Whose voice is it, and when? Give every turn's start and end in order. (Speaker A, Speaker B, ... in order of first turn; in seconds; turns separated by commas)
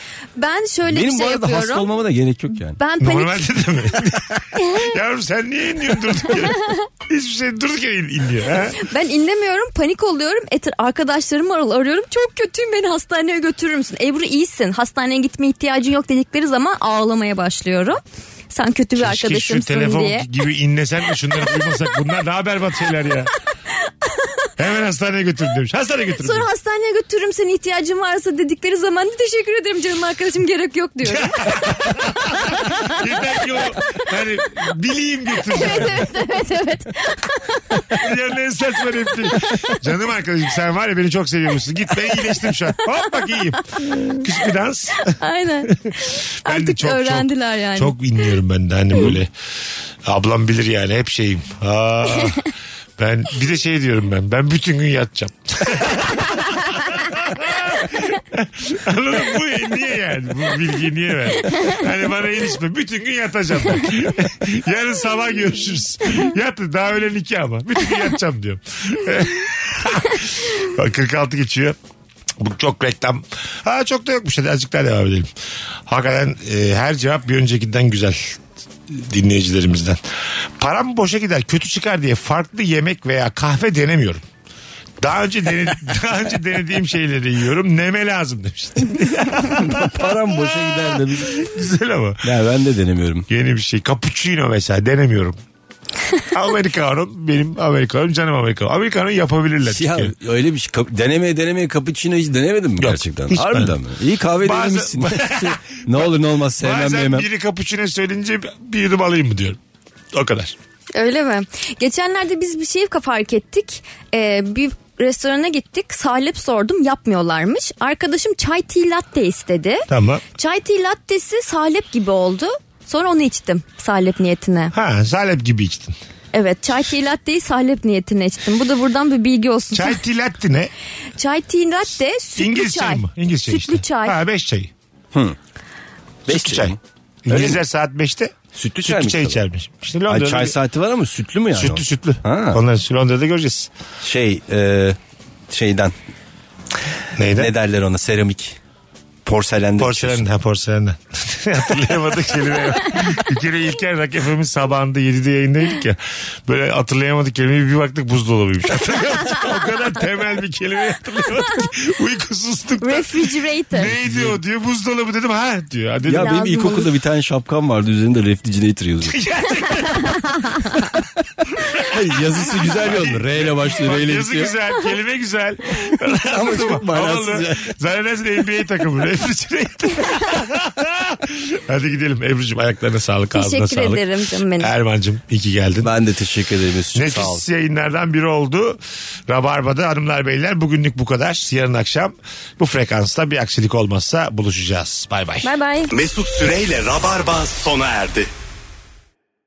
Speaker A: 0.4-1.9, Speaker B: 0.9-2.8, Speaker A: 2.8-3.4, Speaker C: 3.0-8.8, Speaker A: 4.6-4.9, Speaker A: 8.8-20.3, Speaker C: 19.0-23.3, Speaker C: 24.6-26.5, Speaker A: 26.2-32.9, Speaker C: 31.0-36.0, Speaker A: 35.5-38.0, Speaker C: 38.0-49.3, Speaker A: 45.1-48.0, Speaker B: 48.9-49.2, Speaker C: 50.0-71.8, Speaker C: 72.4-75.3, Speaker C: 75.8-80.0, Speaker C: 80.6-84.2, Speaker C: 85.0-92.2, Speaker B: 89.6-91.4, Speaker B: 92.2-93.2, Speaker C: 93.3-95.4, Speaker C: 96.3-100.1, Speaker B: 99.7-107.3, Speaker C: 102.8-103.7, Speaker C: 104.4-109.6, Speaker C: 110.1-110.5, Speaker A: 110.9-124.7, Speaker C: 119.9-120.2, Speaker C: 124.7-125.9, Speaker A: 126.3-130.0, Speaker C: 129.7-130.7, Speaker A: 131.2-134.2, Speaker C: 132.4-134.7, Speaker B: 136.3-137.6, Speaker C: 136.3-140.5, Speaker B: 138.5-139.4, Speaker B: 140.1-142.6, Speaker C: 141.5-143.7, Speaker B: 144.0-145.0, Speaker B: 145.5-145.9, Speaker C: 147.2-147.5, Speaker B: 147.4-148.6, Speaker B: 149.2-150.2, Speaker C: 149.8-166.6, Speaker A: 162.8-163.9, Speaker B: 164.0-164.4, Speaker B: 166.1-169.2, Speaker A: 166.2-166.9, Speaker C: 169.1-170.3, Speaker A: 170.1-170.7, Speaker B: 171.8-174.5, Speaker C: 171.9-184.0, Speaker B: 176.3-177.7, Speaker A: 183.3-184.7, Speaker C: 184.6-185.9, Speaker B: 185.8-187.4, Speaker C: 186.9-195.5, Speaker A: 195.4-195.9, Speaker D: 195.9-198.3